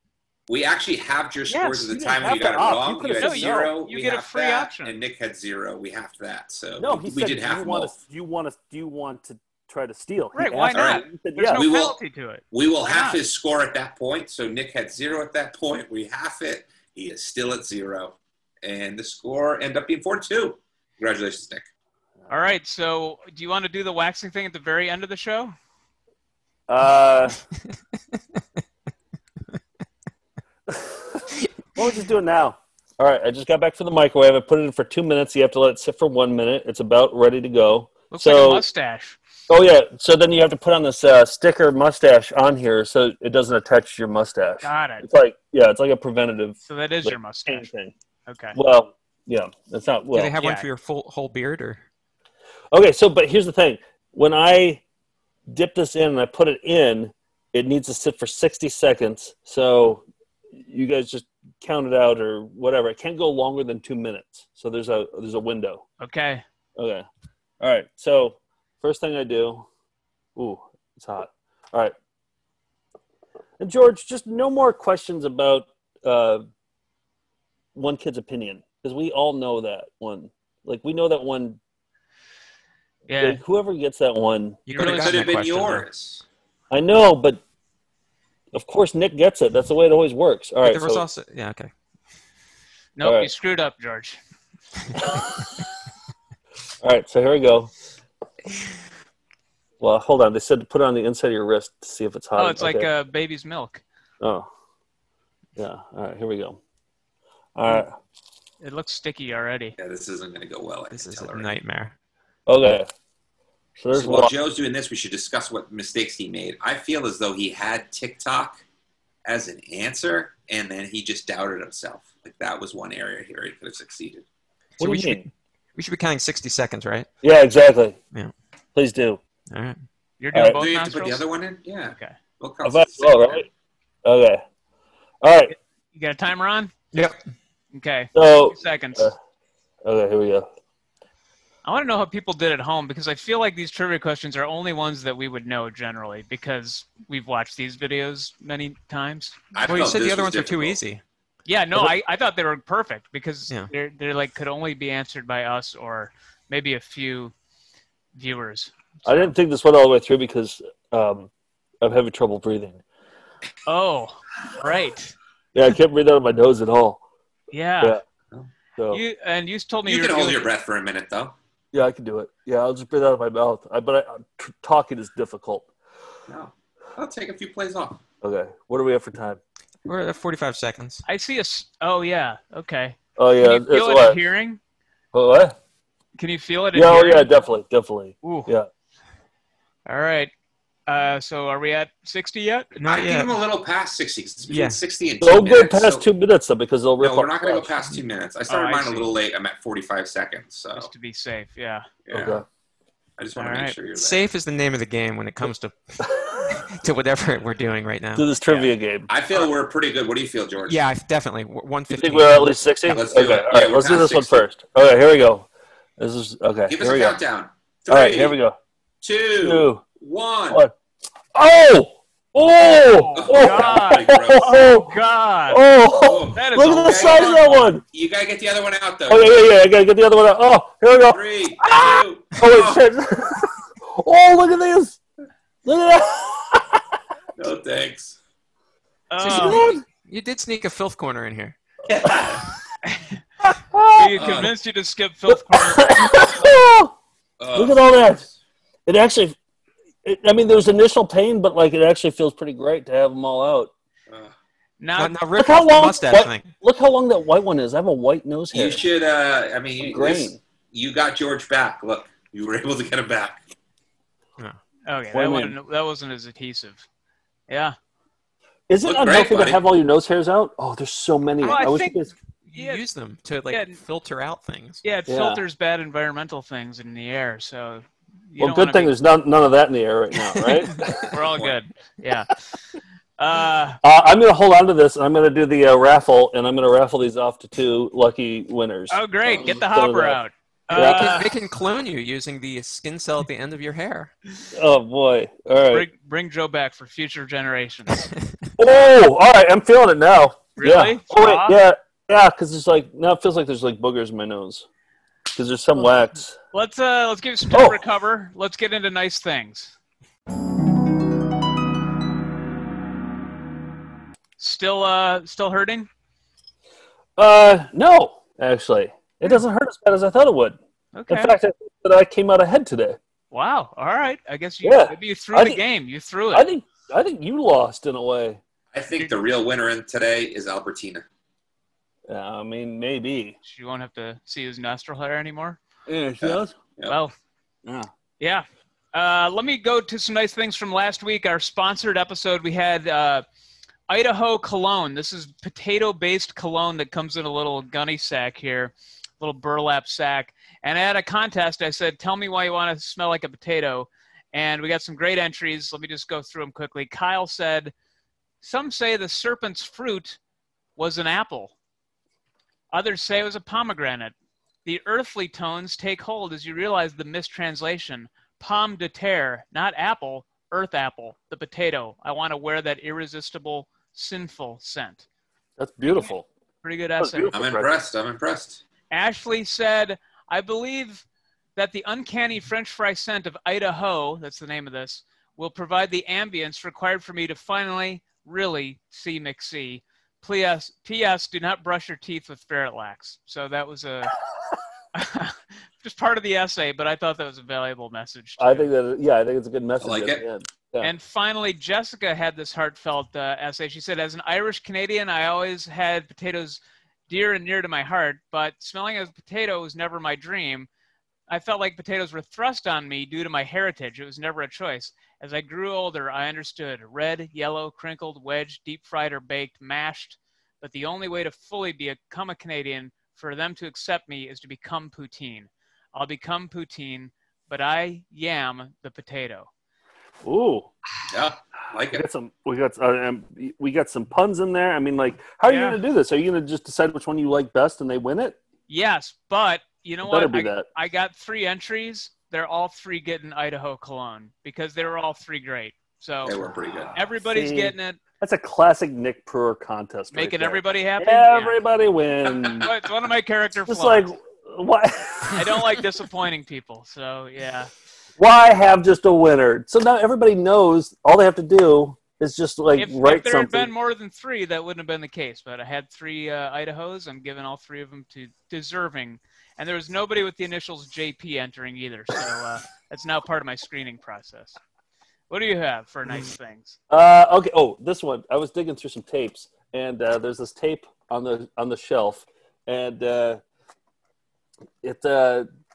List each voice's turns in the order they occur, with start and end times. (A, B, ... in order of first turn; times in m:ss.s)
0:00.5-0:07.9 A
0:01.5-0:03.7 B
0:03.2-0:04.9 C
0:06.8-0:11.6 B
0:10.3-0:13.2 C
0:10.7-0:11.0 A
0:11.6-0:12.0 A
0:12.5-0:21.7 A
0:22.3-0:25.6 C
0:26.7-0:27.3 B
0:30.7-0:31.2 B
0:31.8-0:38.6 B
0:38.1-0:39.2 C
0:39.5-0:47.9 B
0:44.6-0:45.0 C
0:46.6-0:47.7 C
0:48.3-0:48.6 C
0:48.5-0:50.3 B
0:50.1-0:51.8 D
0:50.4-0:50.7 C
0:52.7-0:54.8 B
0:55.5-1:05.8 B
1:06.0-1:06.4 C
1:06.8-1:07.0 B
1:07.6-1:09.7 B
1:10.4-1:11.9 B
1:13.6-1:16.4 B
1:17.7-1:21.6 B
1:23.1-1:23.4 C
1:23.2-1:24.6 B
1:24.7-1:26.0 D
1:24.7-1:25.3 C
1:24.7-1:26.2 A
1:26.7-1:27.4 B
1:28.5-1:31.0 B
1:30.6-1:31.7 D
1:33.0-1:34.2 C
1:33.0-1:33.3 B
1:36.8-1:37.7 B
1:39.8-1:42.9 B
1:42.4-1:43.8 C
1:44.2-1:44.5 B
1:45.6-1:46.6 B
1:47.6-1:48.0 B
1:48.6-1:49.7 C
1:49.8-1:51.5 A
1:50.9-1:51.9 D
1:52.5-1:52.9 B
1:53.8-1:54.3 B
1:53.9-1:58.6 A
1:59.2-2:04.2 A
2:04.8-2:07.1 D
2:04.8-2:05.2 B
2:07.2-2:08.0 B
2:08.7-2:09.2 B
2:09.5-2:09.8 D
2:10.2-2:11.2 C
2:10.3-2:10.6 B
2:10.6-2:13.4 A
2:12.6-2:13.5 B
2:14.0-2:14.4 B
2:15.2-2:15.5 B
2:15.9-2:16.7 C
2:17.7-2:19.1 C
2:18.1-2:19.2 B
2:19.8-2:20.4 B
2:21.6-2:29.4 C
2:29.6-2:30.8 A
2:29.6-2:31.0 D
2:31.4-2:37.3 C
2:38.1-2:39.3 C
2:39.0-2:41.3 B
2:41.8-2:42.8 B
2:43.7-2:45.1 C
2:45.5-2:47.0 B
2:47.5-2:48.0 C
2:48.8-2:49.0 B
2:48.9-2:50.4 C
2:49.8-2:51.3 A
2:51.7-2:55.7 B
2:56.3-2:58.0 A
2:58.2-2:59.4 B
2:59.8-3:01.0 D
3:01.0-3:04.6 C
3:03.2-3:04.2 B
3:05.1-3:05.6 B
3:06.2-3:07.3 C
3:06.7-3:08.7 B
3:08.2-3:08.5 C
3:09.8-3:10.3 C
3:10.9-3:12.8 C
3:12.8-3:13.4 D
3:12.9-3:16.0 A
3:14.5-3:14.8 D
3:15.2-3:17.9 B
3:17.0-3:20.9 A
3:18.5-3:19.1 C
3:20.7-3:21.9 C
3:22.1-3:22.3 A
3:22.1-3:22.4 B
3:23.2-3:24.2 A
3:23.4-3:23.8 C
3:23.9-3:25.8 D
3:26.6-3:28.2 D
3:28.2-3:29.1 B
3:29.1-3:30.8 A
3:30.7-3:32.5 D
3:31.9-3:35.5 B
3:32.9-3:34.4 A
3:36.0-3:37.2 B
3:36.7-3:38.4 A
3:37.9-3:38.6 B
3:39.0-3:40.6 A
3:39.4-3:39.8 B
3:41.3-3:44.9 B
3:42.9-3:45.6 C
3:43.1-3:44.5 A
3:45.5-3:47.8 B
3:46.0-3:49.4 A
3:46.3-3:47.6 C
3:49.1-3:55.0 B
3:51.0-3:52.8 A
3:55.6-3:56.8 B
3:57.4-3:58.2 A
3:59.1-3:59.6 C
3:59.2-4:01.6 D
3:59.3-3:59.8 B
4:01.9-4:02.4 A
4:03.5-4:04.4 B
4:04.0-4:06.4 C
4:04.2-4:04.5 A
4:05.3-4:06.9 B
4:07.4-4:08.3 A
4:07.6-4:08.2 B
4:08.8-4:09.4 B
4:10.0-4:13.7 B
4:14.8-4:15.2 C
4:15.0-4:16.5 D
4:15.4-4:18.8 B
4:18.5-4:23.4 A
4:19.8-4:20.4 B
4:24.9-4:26.8 C
4:25.1-4:25.6 B
4:27.5-4:27.7 C
4:28.7-4:32.1 B
4:28.8-4:29.6 A
4:31.4-4:32.8 C
4:32.5-4:34.8 D
4:33.5-4:33.8 C
4:34.8-4:38.9 C
4:35.1-4:35.4 B
4:38.4-4:41.0 B
4:40.4-4:40.7 D
4:41.1-4:42.3 C
4:43.2-4:43.8 C
4:43.8-4:50.2 B
4:48.9-4:51.3 C
4:50.7-4:51.2 B
4:50.7-4:54.1 D
4:54.5-4:55.9 B
4:55.7-4:58.1 C
4:58.6-5:04.6 B
5:00.6-5:01.6 C
5:05.3-5:06.4 B
5:06.5-5:09.8 C
5:07.5-5:07.8 B
5:14.4-5:15.9 C
5:17.2-5:20.6 B
5:20.9-5:21.3 C
5:21.1-5:23.0 B
5:23.3-5:26.4 C
5:24.6-5:25.6 B
5:26.3-5:28.4 B
5:28.7-5:31.0 A
5:32.1-5:33.4 B
5:33.4-5:35.6 C
5:35.9-5:36.6 B
5:36.2-5:37.0 A
5:36.8-5:37.1 C
5:37.6-5:37.9 B
5:38.2-5:43.2 C
5:43.9-5:57.7 C
5:58.4-6:00.2 C
6:00.8-6:01.5 C
6:02.7-6:04.1 C
6:04.6-6:15.0 C
6:15.6-6:16.3 B
6:16.6-6:17.3 C
6:17.0-6:17.8 B
6:17.3-6:18.6 A
6:18.9-6:21.0 C
6:21.6-6:34.1 C
6:34.9-6:38.7 C
6:38.4-6:40.9 B
6:39.8-6:40.2 A
6:40.8-6:50.7 C
6:51.3-7:09.5 C
7:10.2-7:10.7 B
7:11.1-7:12.0 A
7:11.9-7:18.4 B
7:15.5-7:15.8 C
7:18.7-7:26.4 C
7:20.0-7:20.6 B
7:26.2-7:26.9 A
7:26.9-7:28.0 C
7:27.2-7:32.7 B
7:30.1-7:31.6 C
7:32.6-7:34.1 C
7:33.7-7:35.5 B
7:35.4-7:37.7 C
7:38.2-7:43.7 B
7:42.8-7:54.6 C
7:55.3-7:56.8 C
7:56.9-8:03.4 B
8:04.8-8:05.5 B